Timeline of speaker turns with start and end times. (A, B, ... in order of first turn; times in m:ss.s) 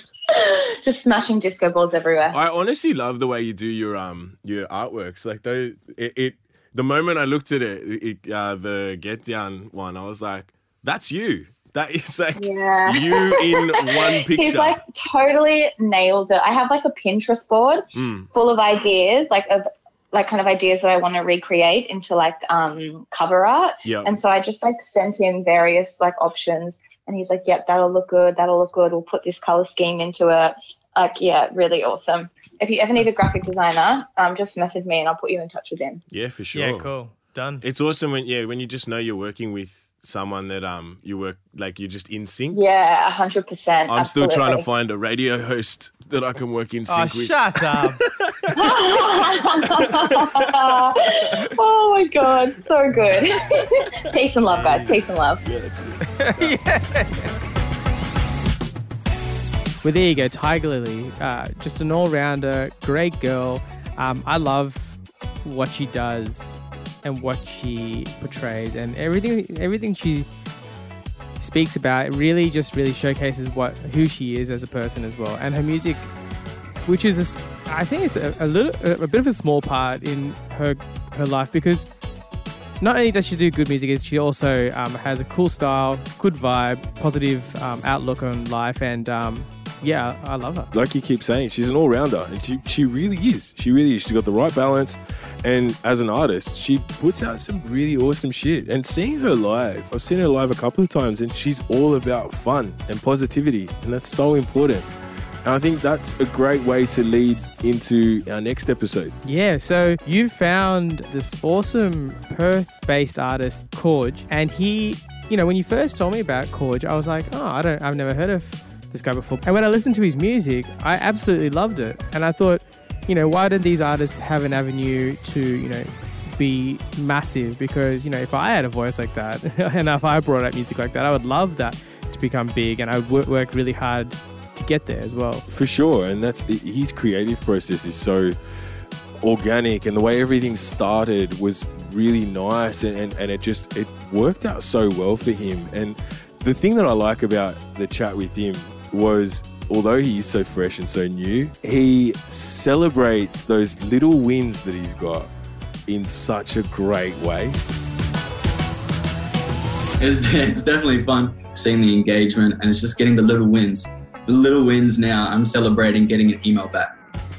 0:00.3-0:02.4 A
0:02.3-0:14.8 B
0:12.4-0:36.0 A
0:18.0-0:18.3 B
0:23.8-0:24.1 B
0:33.0-0:33.3 C
0:36.1-0:36.9 B
0:36.5-0:37.6 C
0:37.6-0:42.6 B
0:42.5-0:44.7 A
0:43.9-0:47.4 B
0:46.9-0:48.0 C
0:48.6-0:55.4 A
0:54.5-0:54.9 B
0:55.4-0:56.6 B
0:56.3-0:57.3 C
0:59.8-1:10.3 C
1:11.4-1:16.1 C
1:16.8-1:21.9 C
1:22.8-1:30.7 C
1:30.7-1:44.9 D
1:45.4-1:49.2 D
1:49.2-2:15.5 C
2:15.5-2:18.4 D
2:19.2-2:35.3 D
2:35.9-2:37.6 D
2:40.0-2:47.0 E